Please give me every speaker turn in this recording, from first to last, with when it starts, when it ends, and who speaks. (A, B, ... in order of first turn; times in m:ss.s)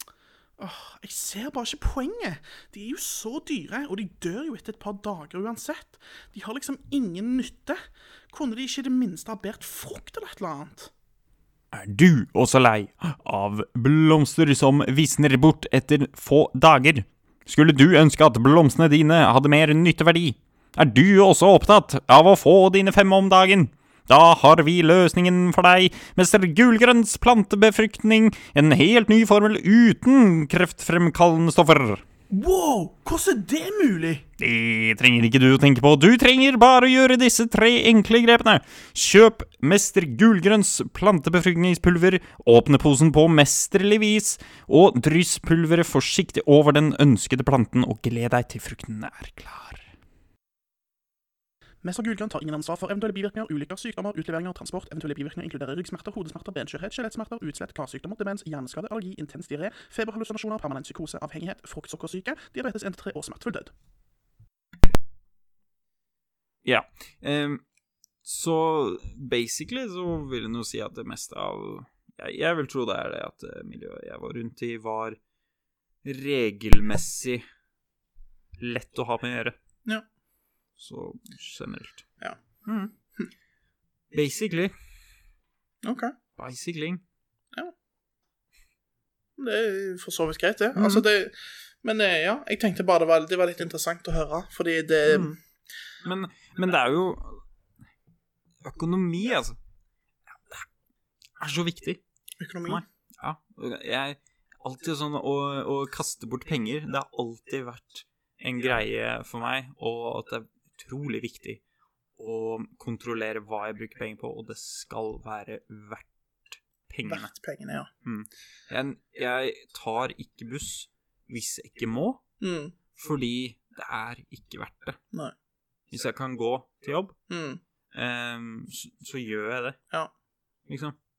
0:00.6-0:07.8 A
0:08.3-0:10.9 A
0:11.7-0:32.0 B
0:32.3-0:34.2 A
0:34.4-0:49.9 B
0:51.8-1:03.7 A
1:06.6-1:07.6 B
1:08.2-1:15.2 B
1:16.0-1:17.4 B
1:18.6-1:19.6 B
1:20.8-1:22.1 B
1:22.6-1:22.9 B
1:24.1-1:24.7 B
1:25.8-1:26.1 A
1:26.4-1:27.0 B
1:29.4-1:35.4 A
1:30.8-1:31.1 B
1:35.1-1:35.4 B
1:36.0-1:37.4 B
1:38.6-1:39.6 B
1:40.3-1:40.7 B
1:41.4-1:42.0 B
1:42.4-1:42.8 A
1:42.7-1:51.6 B
1:52.2-1:57.3 B
1:57.0-1:57.9 A
1:58.0-2:02.2 B
2:02.4-2:02.8 A
2:03.0-2:05.0 B
2:05.9-2:07.2 B
2:07.3-2:07.6 A
2:07.9-2:09.8 B
2:10.7-2:11.0 B